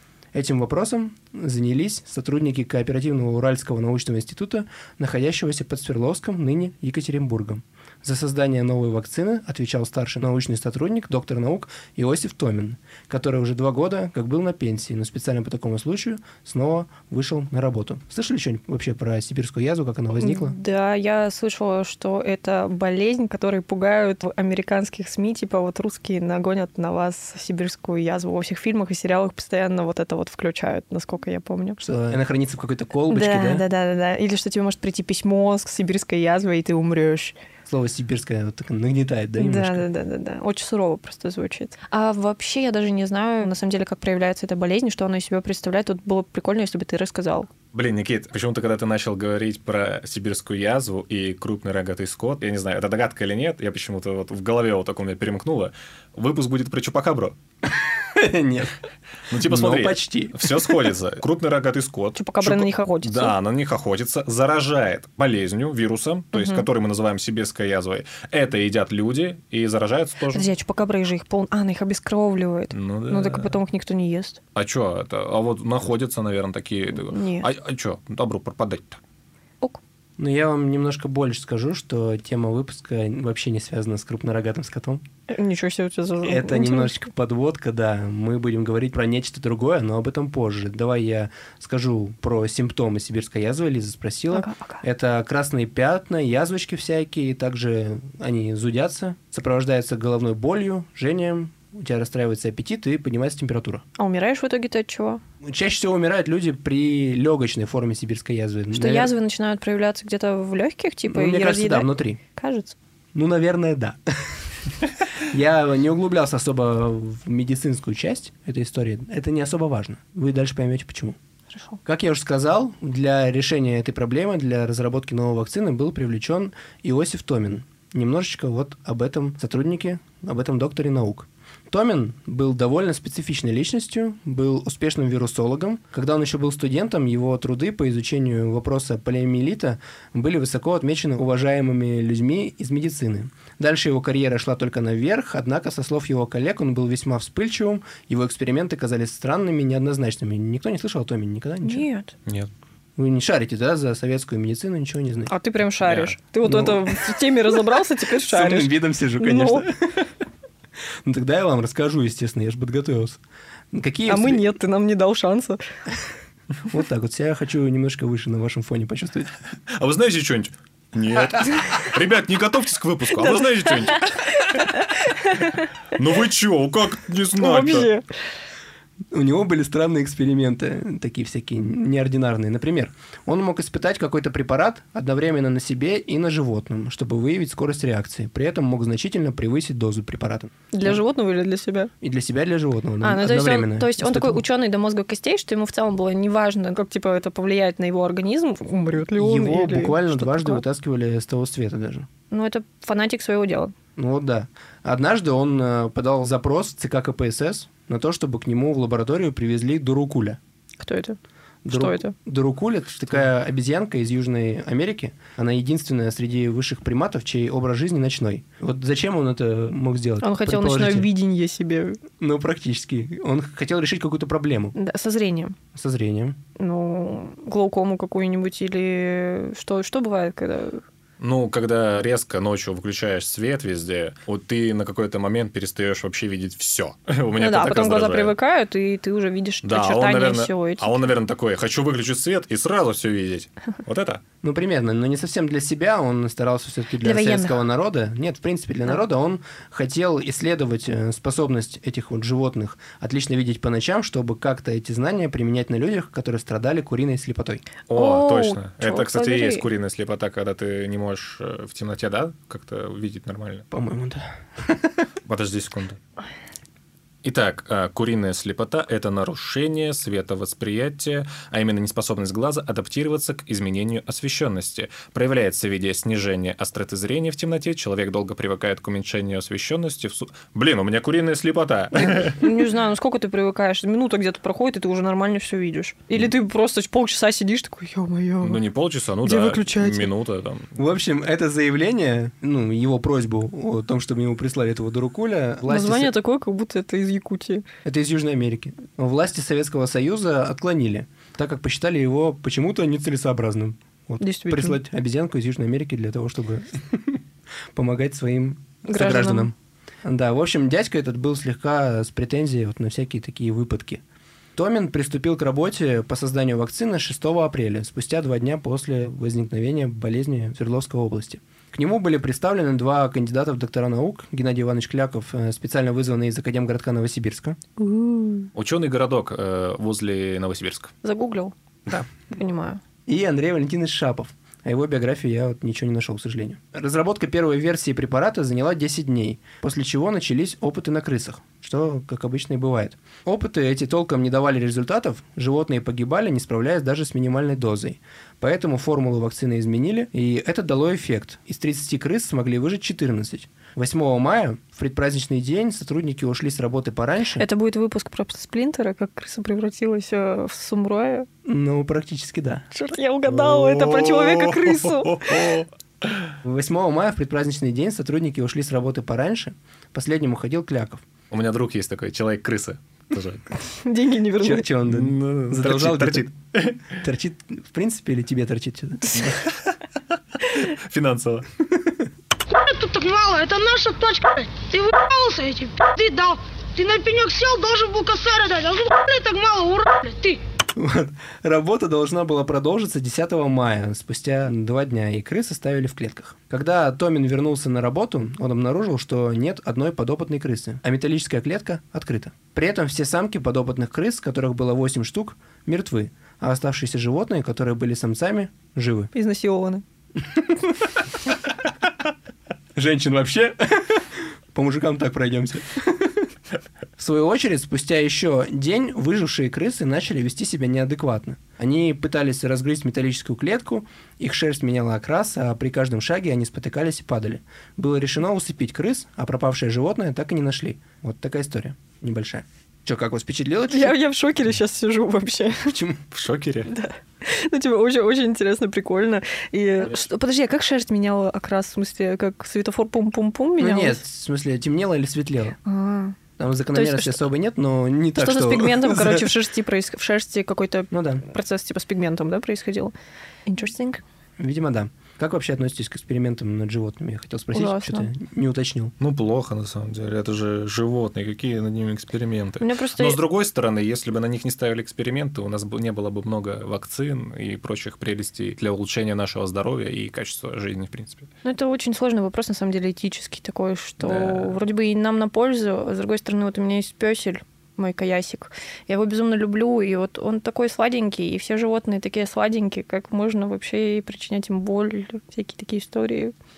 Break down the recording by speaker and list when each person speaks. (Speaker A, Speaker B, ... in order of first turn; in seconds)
Speaker A: 0.3-20.6, 31.8-33.6, 37.6-39.8, 57.7-58.7, 59.4-60.7, 80.2-85.0, 86.2-103.8, 105.4-109.1, 111.1-112.2, 113.1-114.0, 115.3-121.2, 121.8-151.8, 153.0-155.3, 156.4-157.2, 158.2-159.7, 161.0-163.2, 163.7-164.5, 166.7-169.3, 179.1-191.0, 192.0-194.4, 199.2-202.1, 203.9-210.4, 211.6-221.1, 222.2-224.7, 225.7-226.4, 244.4-257.6, 263.7-265.0, 290.8-296.1, 297.8-307.2, 307.7-314.0, 314.6-327.6, 333.1-357.4, 361.4-362.6, 366.4-371.0, 374.4-376.3, 376.9-379.2, 390.8-409.1, 412.7-416.2, 417.0-433.9, 435.7-436.0, 443.6-445.6, 446.4-449.3, 450.9-451.2, 454.4-458.9
Speaker B: 20.2-31.8, 33.1-37.4, 39.4-47.5, 62.1-63.3, 66.3-66.6, 70.3-74.4, 77.1-77.5, 85.3-87.0, 94.3-94.8, 104.0-105.2, 108.7-112.8, 121.5-121.8, 151.6-152.1, 155.3-159.7, 164.1-165.6, 173.2-175.6, 177.4-178.0, 190.7-191.9, 193.0-200.6, 202.3-203.7, 210.8-211.2, 211.7-212.1, 220.2-222.0, 224.7-225.6, 226.6-230.8, 237.4-241.0, 247.0-247.6, 257.9-259.6, 282.2-288.6, 289.2-290.1, 295.7-297.6, 304.2-304.8, 308.9-309.5, 327.8-328.5, 331.0-331.5, 332.3-332.8, 357.4-361.3, 362.7-365.2, 373.8-374.6, 409.1-409.8, 433.7-435.7, 436.7-444.0, 445.6-446.2, 446.7-447.2, 448.2-452.9, 453.5-454.0, 457.5-458.1, 462.6-463.2, 471.4-486.3
Speaker C: 47.7-57.4, 59.3-70.5, 72.7-73.5, 74.5-79.0, 155.8-156.1, 169.8-174.2, 176.0-177.9, 231.2-238.3, 239.6-244.2, 257.9-263.6, 265.3-266.0, 267.2-282.4, 288.4-290.7, 328.5-330.9, 363.3-365.7, 371.3-373.4, 374.9-376.9, 380.6-381.4, 436.1-436.7, 459.0-471.3, 474.0-474.6
Speaker D: 382.5-390.4